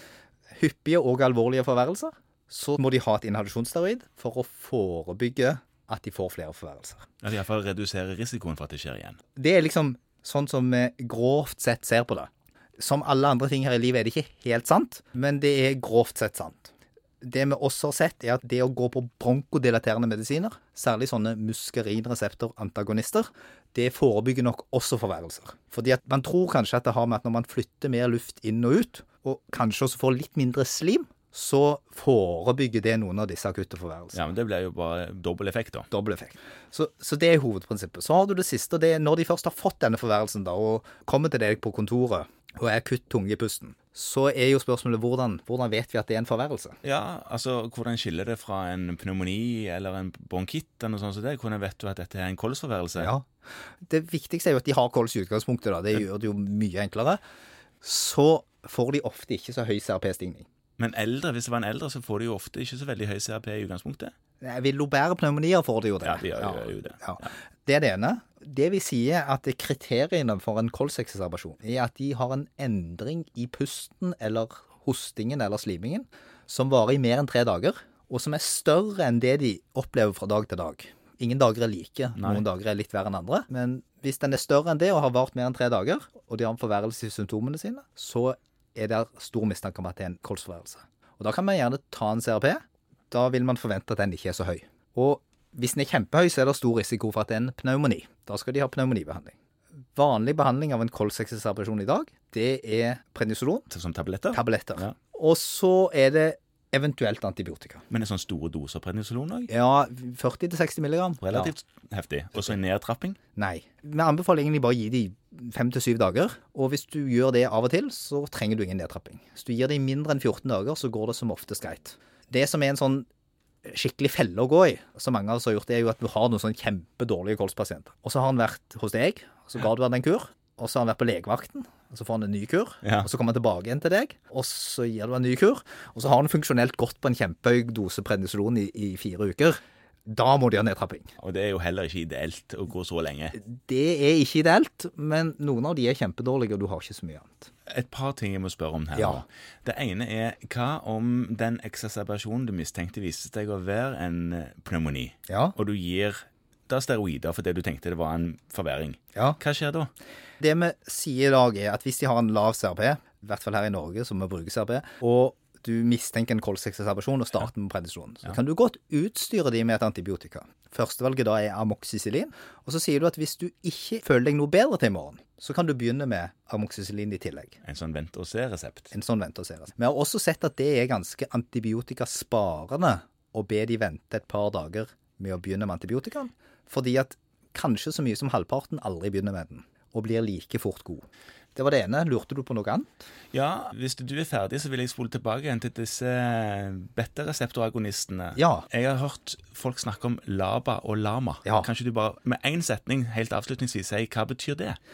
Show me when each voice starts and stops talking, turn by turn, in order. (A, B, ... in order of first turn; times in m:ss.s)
0:00.5-0:07.0 A
0:07.2-0:09.2 B
0:09.4-0:34.2 A
0:34.1-0:35.9 B
0:35.9-0:46.8 A
0:46.8-0:53.1 B
0:53.0-0:53.3 A
0:53.8-0:57.2 A
0:57.8-1:00.4 A
1:00.8-1:04.1 B
1:04.4-1:39.3 A
1:06.0-1:07.3 B
1:22.2-1:22.4 B
1:39.9-1:43.7 A
1:43.7-1:44.9 B
1:44.3-1:47.8 A
1:47.9-1:49.5 B
1:49.5-1:51.5 A
1:51.2-1:53.2 B
1:53.4-2:03.1 A
2:03.6-2:21.1 A
2:12.8-2:13.1 B
2:21.2-2:23.4 B
2:23.3-2:27.5 A
2:27.7-2:39.9 B
2:28.9-2:29.2 A
2:35.3-2:35.6 A
2:40.4-2:57.6 A
2:57.6-2:58.9 B
2:58.9-3:13.0 A
3:13.3-3:24.8 B
3:18.4-3:18.7 A